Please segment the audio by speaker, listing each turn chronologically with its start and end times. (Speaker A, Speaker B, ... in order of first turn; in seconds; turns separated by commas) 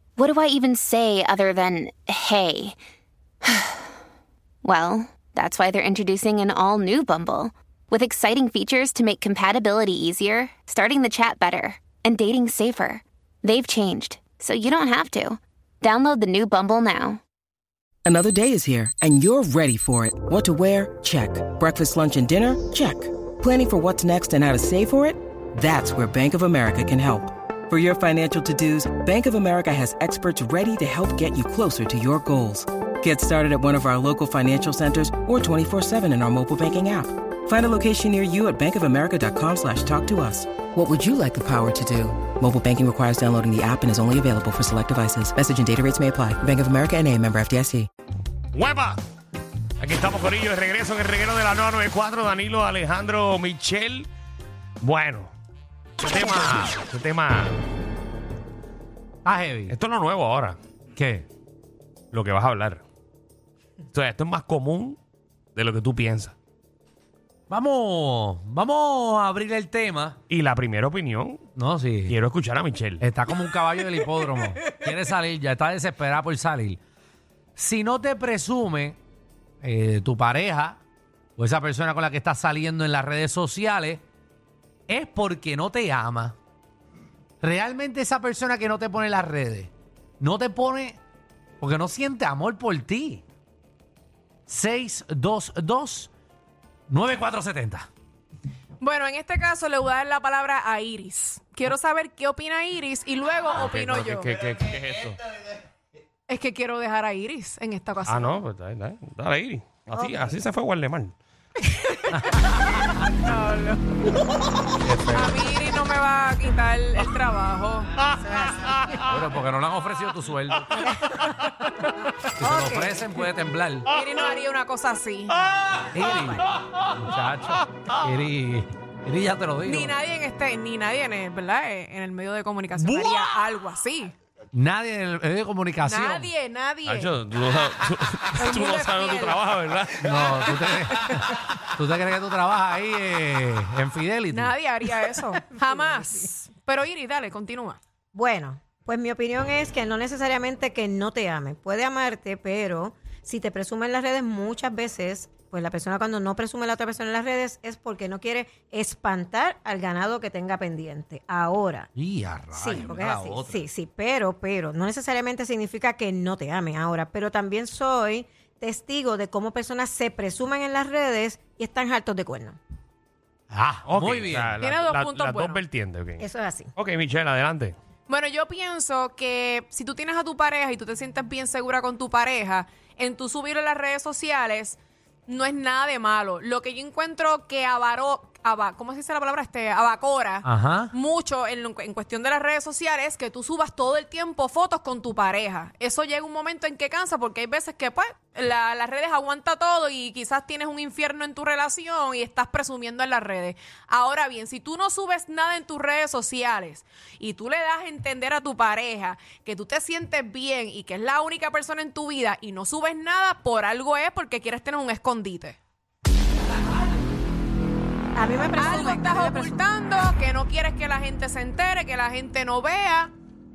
Speaker A: 0.2-2.8, Speaker A: 3.4-3.9, Speaker A: 4.6-17.2, Speaker B: 18.1-47.9, Speaker C: 48.5-49.0, Speaker C: 49.8-54.1, Speaker C: 54.8-55.3, Speaker C: 56.0-57.6, Speaker D: 59.2-59.8, Speaker C: 59.7-60.6, Speaker D: 61.0-61.3, Speaker C: 62.1-62.8, Speaker C: 63.9-65.0, Speaker C: 65.5-66.3, Speaker D: 67.5-70.2, Speaker C: 70.3-71.4, Speaker D: 71.6-72.2, Speaker C: 72.1-73.1, Speaker D: 73.0-76.8, Speaker D: 77.6-79.0, Speaker D: 79.6-80.8, Speaker D: 81.4-84.0, Speaker D: 84.9-86.4, Speaker D: 87.4-91.0, Speaker D: 91.6-93.2, Speaker D: 94.5-96.1, Speaker D: 96.9-97.9, Speaker E: 98.8-104.3, Speaker C: 103.5-105.2, Speaker E: 106.3-108.4, Speaker C: 108.1-111.2, Speaker F: 110.0-110.2, Speaker D: 112.1-112.5, Speaker E: 113.1-113.8, Speaker D: 114.8-115.3, Speaker E: 115.2-117.9, Speaker F: 118.2-118.6, Speaker D: 119.1-120.8, Speaker F: 120.7-121.4, Speaker D: 122.4-123.9, Speaker F: 122.4-123.1, Speaker E: 123.9-125.5, Speaker D: 125.8-129.9, Speaker E: 129.7-134.2, Speaker C: 132.8-133.1, Speaker D: 134.5-136.3, Speaker E: 135.9-137.2, Speaker C: 136.9-140.2, Speaker E: 138.4-139.4, Speaker D: 140.0-144.5, Speaker E: 140.6-141.2, Speaker E: 144.3-147.8, Speaker F: 148.1-161.9, Speaker D: 161.9-163.7, Speaker F: 162.6-172.6, Speaker D: 173.5-174.6, Speaker C: 173.8-177.8, Speaker E: 174.6-175.6, Speaker F: 176.2-176.7, Speaker E: 178.1-215.6, Speaker D: 190.4-190.9, Speaker F: 218.2-219.6, Speaker E: 218.6-223.1